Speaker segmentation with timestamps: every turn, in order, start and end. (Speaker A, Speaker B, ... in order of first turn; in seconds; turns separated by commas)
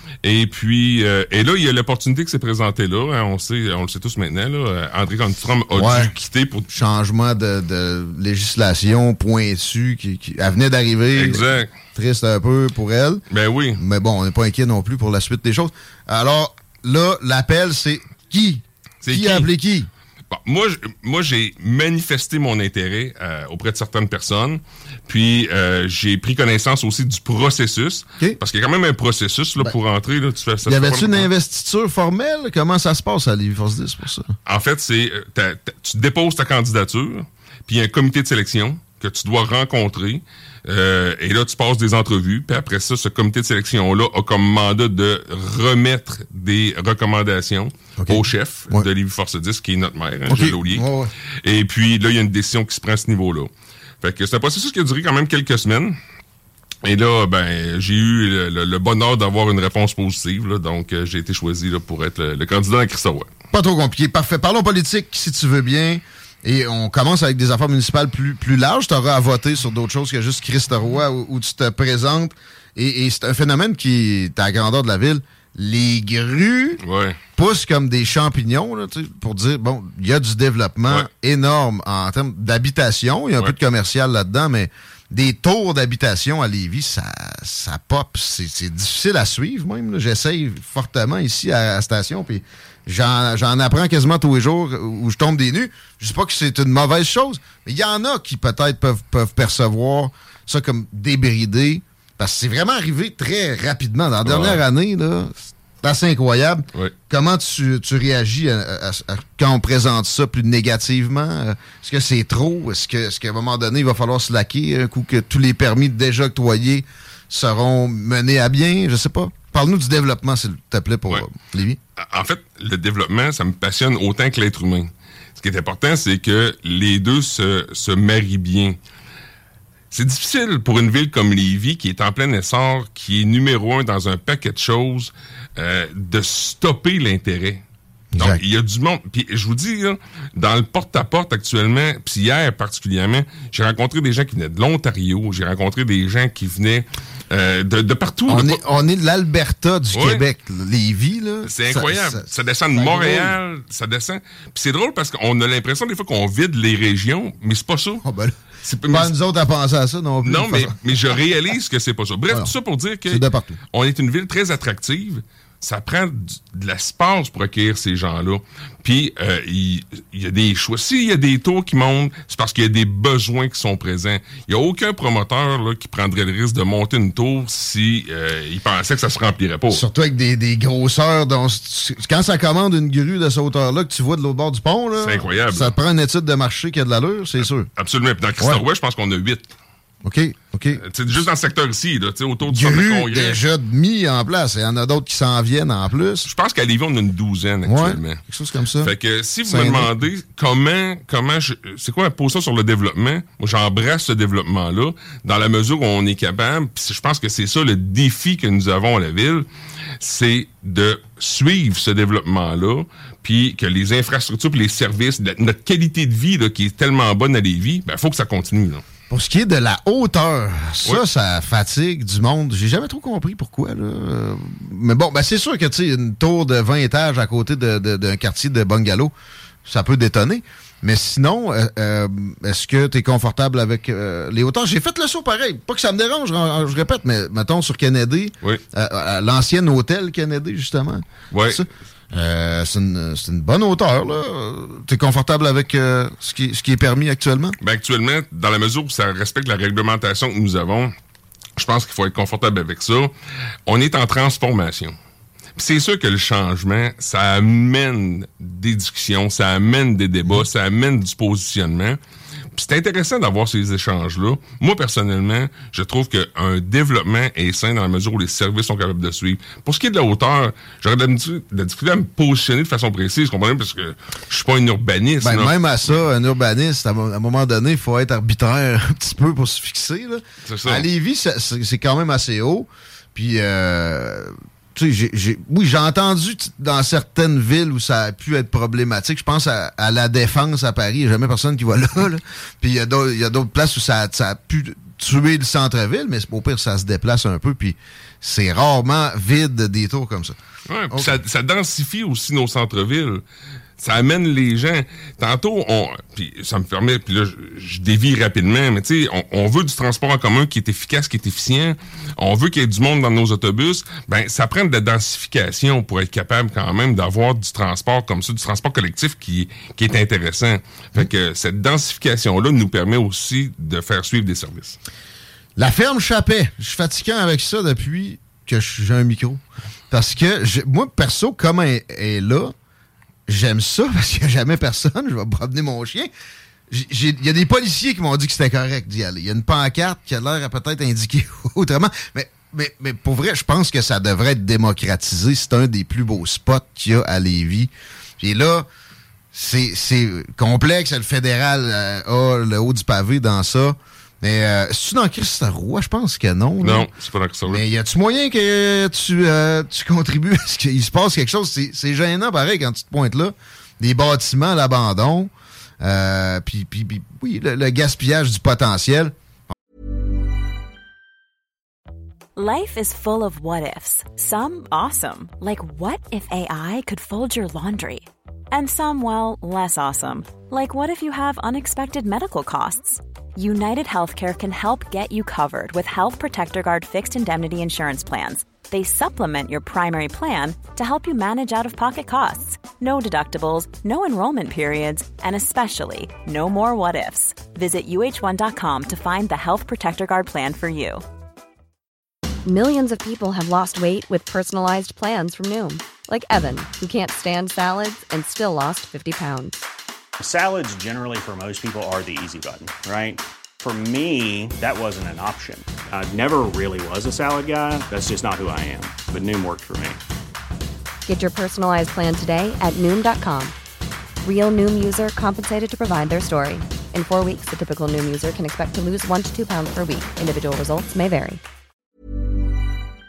Speaker A: 0.2-6.7, Speaker B: 5.7-6.1, Speaker B: 6.7-11.4, Speaker A: 11.2-11.7, Speaker B: 11.9-13.2, Speaker A: 13.3-13.8, Speaker B: 13.8-19.9, Speaker A: 19.0-19.5, Speaker A: 20.3-31.3, Speaker B: 30.7-34.4, Speaker A: 34.5-50.9, Speaker B: 48.0-48.9, Speaker B: 50.3-51.1, Speaker A: 51.4-53.5, Speaker A: 54.0-56.0, Speaker A: 56.8-63.3, Speaker B: 63.5-76.8, Speaker A: 76.8-77.2, Speaker B: 77.4-121.8, Speaker A: 104.2-104.6, Speaker A: 122.0-128.8, Speaker A: 129.9-137.6, Speaker B: 138.1-138.4, Speaker A: 138.2-148.6, Speaker B: 148.3-153.4, Speaker A: 149.9-150.2, Speaker A: 151.5-158.0, Speaker B: 158.0-158.4, Speaker A: 158.6-159.1, Speaker B: 158.9-160.8, Speaker A: 160.2-179.8, Speaker B: 163.1-163.6, Speaker B: 179.7-187.7, Speaker A: 185.0-185.8, Speaker A: 187.8-189.5, Speaker B: 190.0-190.8, Speaker A: 190.8-193.4, Speaker B: 192.4-196.3, Speaker A: 196.3-198.2, Speaker B: 197.7-198.9, Speaker A: 198.8-209.5, Speaker B: 199.4-199.9, Speaker A: 210.0-218.8, Speaker B: 219.1-229.1, Speaker B: 229.7-247.6, Speaker A: 241.3-241.6, Speaker A: 247.6-250.9, Speaker A: 251.6-253.1, Speaker A: 253.7-254.9, Speaker A: 255.6-262.0, Speaker A: 262.6-275.5, Speaker B: 275.2-300.4, Speaker A: 280.5-280.9, Speaker A: 300.7-303.2, Speaker B: 300.9-301.2, Speaker A: 303.8-324.8, Speaker B: 325.6-332.5, Speaker B: 333.3-336.1, Speaker B: 336.7-348.7, Speaker B: 349.3-356.9, Speaker A: 356.6-357.6, Speaker B: 357.5-369.1, Speaker C: 372.4-401.0, Speaker D: 402.5-409.6, Speaker E: 410.2-420.0, Speaker D: 421.1-423.6, Speaker D: 424.2-431.4